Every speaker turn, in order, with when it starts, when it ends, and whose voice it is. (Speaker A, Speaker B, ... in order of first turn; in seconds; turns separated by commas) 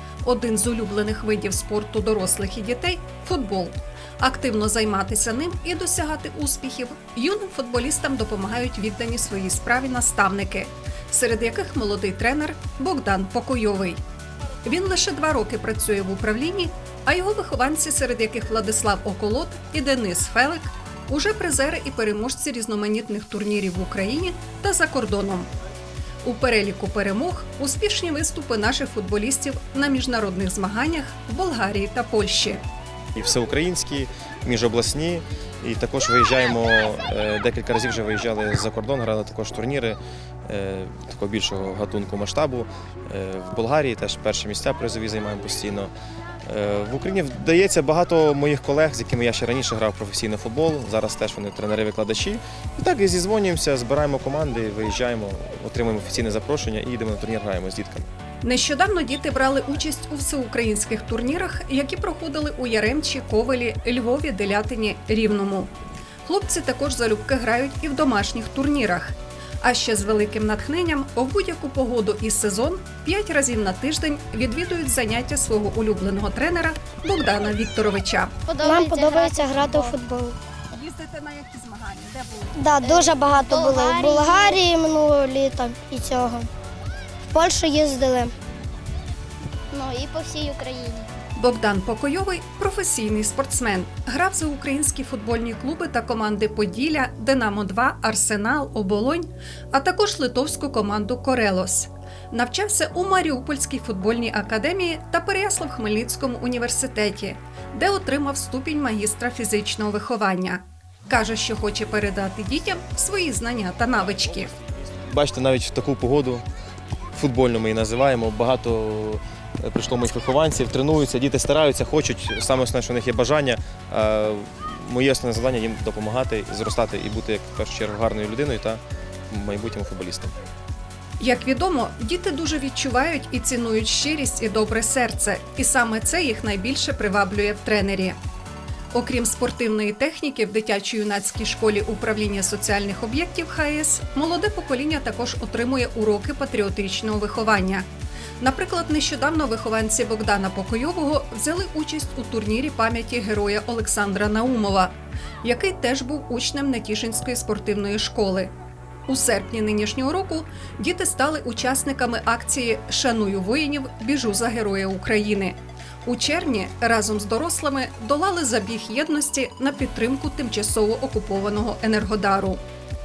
Speaker A: 0.2-14.0, Speaker A: 14.6-25.5, Speaker A: 26.2-32.6, Speaker B: 33.1-45.9, Speaker B: 46.4-58.1, Speaker A: 58.4-65.7, Speaker A: 66.2-78.3, Speaker C: 78.5-79.9, Speaker D: 78.6-80.4, Speaker A: 80.7-82.6, Speaker D: 82.5-86.5, Speaker C: 82.8-84.6, Speaker D: 87.3-88.3, Speaker C: 89.7-91.1, Speaker A: 91.3-114.5, Speaker B: 115.0-116.4, Speaker B: 117.1-130.3, Speaker A: 131.2-138.2, Speaker A: 138.9-147.9, Speaker A: 148.4-158.5, Speaker A: 159.1-172.6